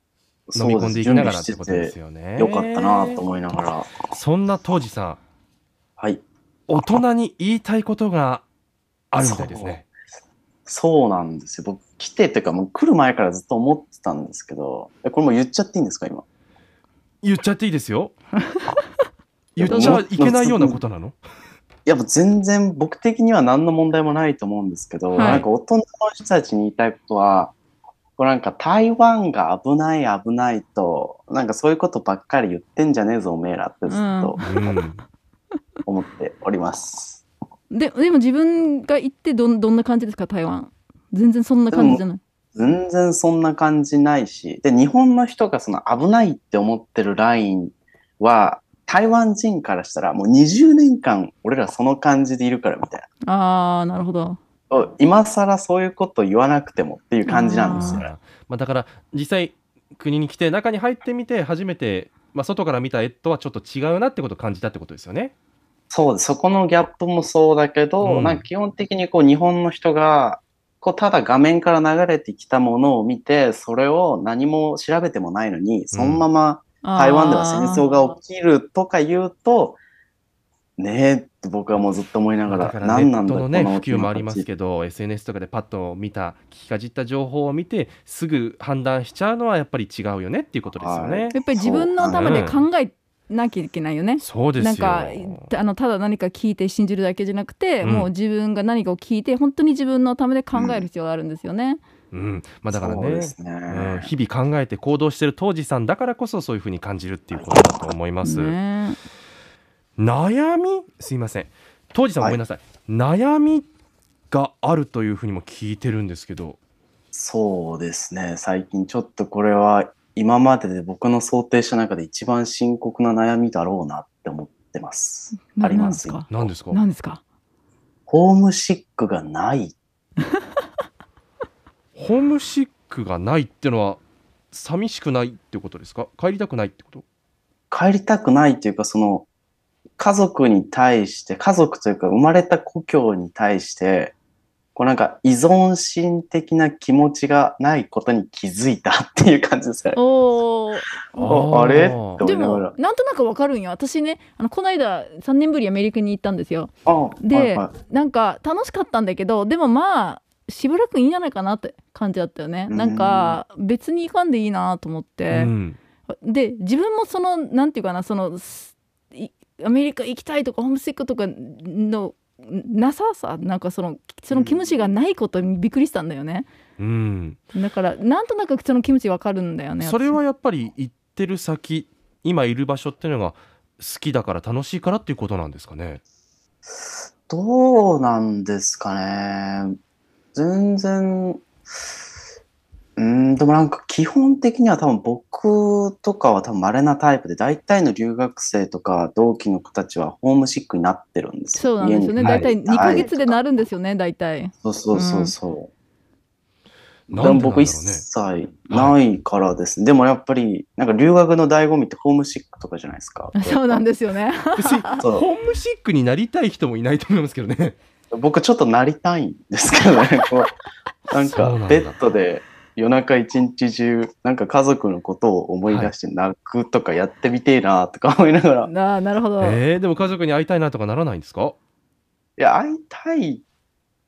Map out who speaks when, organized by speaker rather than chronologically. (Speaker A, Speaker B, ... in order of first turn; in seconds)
Speaker A: 0.5-4.0, 6.0-6.2, 9.2-9.8, 10.7-16.2, 19.6-20.8, 21.9-27.5, 28.2-34.4, 35.9-37.2, 41.7-42.0, 42.5-53.1, 54.7-58.1, 65.9-79.8, 80.8-84.5, 90.8-92.6, 100.5-100.9, 102.7-104.1, 107.4-107.6, 117.1-126.5, 128.1-129.8, 137.7-139.3, 140.0-144.1, 144.8-150.0, 151.1-152.8, 156.9-157.7, 162.7-163.4, 174.3-174.9, 187.3-189.8, 190.3-191.4, 193.0-203.4, 204.6-205.7, 207.1-213.9, 215.0-215.3, 218.1-220.6, 221.1-228.7, 232.4-233.4
Speaker B: 0.6-3.2, 4.1-5.2, 6.7-8.4, 9.1-9.8, 17.2-18.1, 19.6-21.2, 25.2-25.5, 34.4-35.0, 57.7-65.3, 68.0-68.5, 75.9-76.2, 82.5-91.3, 92.2-92.6, 94.2-95.5, 97.8-98.1, 102.1-108.6, 110.0-113.7, 114.3-116.6, 126.3-126.8, 132.0-134.0, 134.5-137.0, 151.2-152.2, 165.3-165.8, 176.8-177.4, 179.8-186.0, 202.2-202.5, 207.1-208.1, 208.7-209.0, 214.6-217.8, 221.1-222.0, 225.7-225.9, 229.4-231.6
Speaker C: 18.6-18.8, 19.7-20.0, 25.1-25.4, 33.9-34.5, 37.7-42.2, 53.2-54.4, 57.2-58.0, 76.8-78.1, 91.3-101.8, 108.2-109.0, 125.3-127.2, 149.9-151.4, 152.2-165.5, 166.2-176.5, 177.5-180.2, 201.5-205.3, 213.3-214.9, 228.6-229.6